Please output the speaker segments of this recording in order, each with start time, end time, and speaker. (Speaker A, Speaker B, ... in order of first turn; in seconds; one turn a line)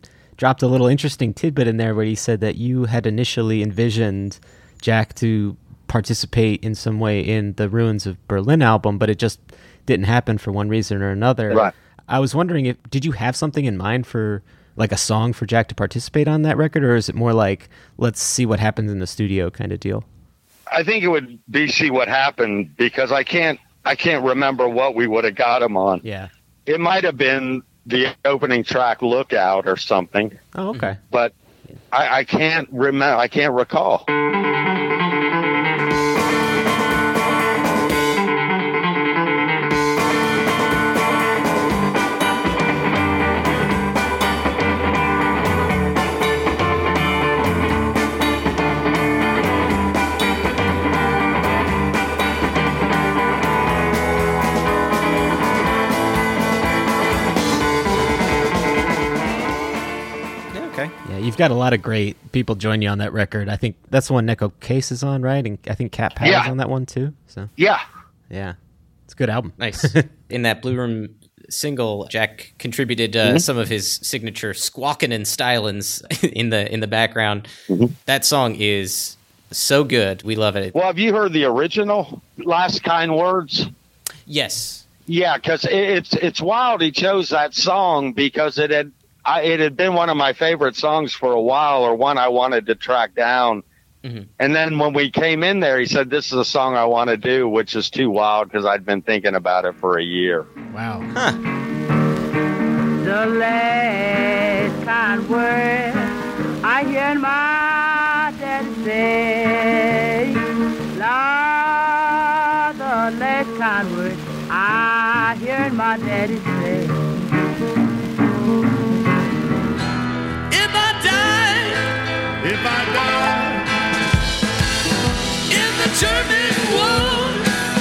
Speaker A: 0.4-20.1
Speaker B: 20.7-26.0
Speaker A: 26.0-26.3
Speaker B: 26.7-30.3
Speaker A: 30.5-31.0
Speaker B: 31.1-31.3
Speaker B: 31.9-34.0
Speaker C: 60.5-60.9
Speaker A: 61.0-67.5
Speaker B: 66.2-66.5
Speaker B: 67.6-67.8
Speaker A: 68.3-68.5
Speaker A: 69.1-70.1
Speaker C: 69.6-77.5
Speaker C: 78.0-80.7
Speaker B: 80.7-83.7
Speaker C: 84.3-84.8
Speaker B: 85.1-93.6
Speaker C: 94.0-94.3
Speaker B: 94.4-100.5
Speaker A: 100.7-101.1
Speaker D: 103.0-106.1
Speaker D: 106.6-110.3
Speaker D: 111.0-112.2
Speaker D: 112.7-116.9
Speaker E: 120.5-121.8
Speaker E: 122.4-123.7
Speaker E: 125.5-127.4